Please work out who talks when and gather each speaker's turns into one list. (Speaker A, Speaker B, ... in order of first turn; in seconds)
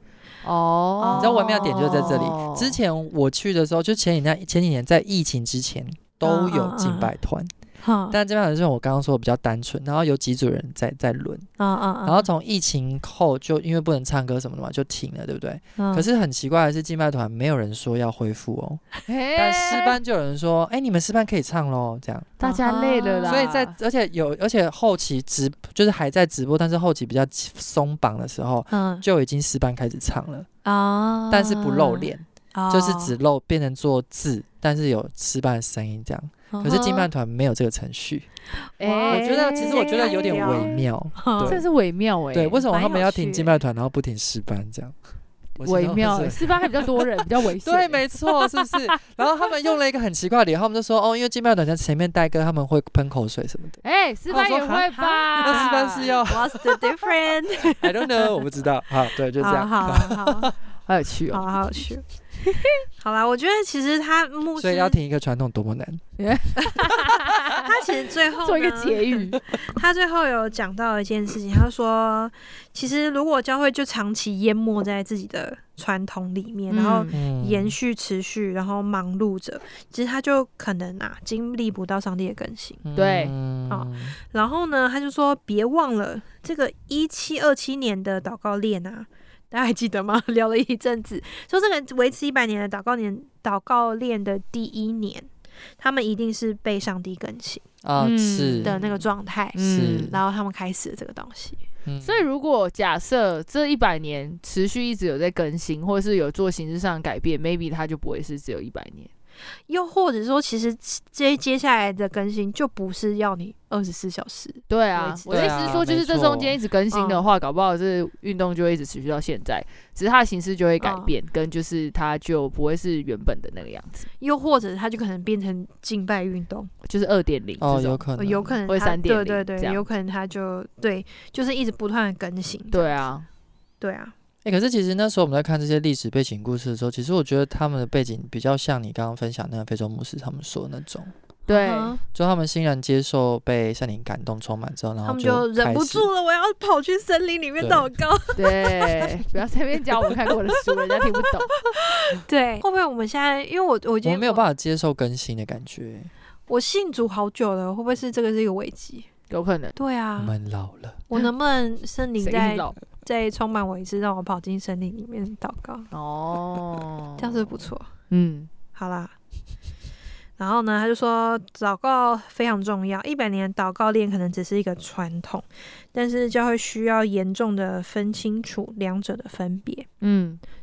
Speaker A: 0.4-2.8, 19.1-19.9, 22.4-23.7, 38.8-40.8, 41.4-42.6, 45.6-48.8, 53.8-56.1, 60.9-61.5, 62.4-62.8, 66.2-67.8, 68.4-69.4, 76.7-77.1, 83.0-83.3, 98.0-100.2, 102.0-109.1, 114.7-124.1, 126.8-128.1, 128.7-129.8, 132.7-133.2, 141.5-141.9, 148.4-151.6, 159.3-159.8, 162.2-162.7, 165.9-168.5, 180.0-180.4
Speaker B: 1.0-2.2, 6.2-7.1, 7.8-8.2, 11.6-12.3, 15.8-16.1, 22.4-23.4, 28.7-29.0, 30.6-33.1, 36.5-37.1, 38.8-41.6, 42.7-43.5, 54.9-58.3, 59.4-60.5, 61.3-62.0, 63.0-65.0, 66.6-66.8, 67.5-82.8, 83.7-97.6, 98.6-101.6, 109.7-115.8, 116.9-117.2, 120.8-121.1, 124.2-126.7, 128.2-133.0, 133.8-134.1, 141.5-142.0, 145.0-149.2, 150.3-154.4, 156.5-159.1, 159.8-160.3, 161.1-165.9, 167.2-167.9, 168.8-169.1, 170.4-179.9
Speaker C: 1.1-7.5, 8.1-11.5, 12.0-22.3, 23.3-30.5, 31.3-38.3, 39.1-41.6, 42.3-45.0, 45.6-56.9, 57.6-60.5, 64.6-66.0, 77.1-77.7, 82.8-84.1, 97.8-98.7, 99.6-100.2, 101.8-102.2, 115.3-116.6, 127.6-128.6, 134.4-141.1, 142.1-146.1, 147.6-147.9, 154.0-156.1, 160.2-161.0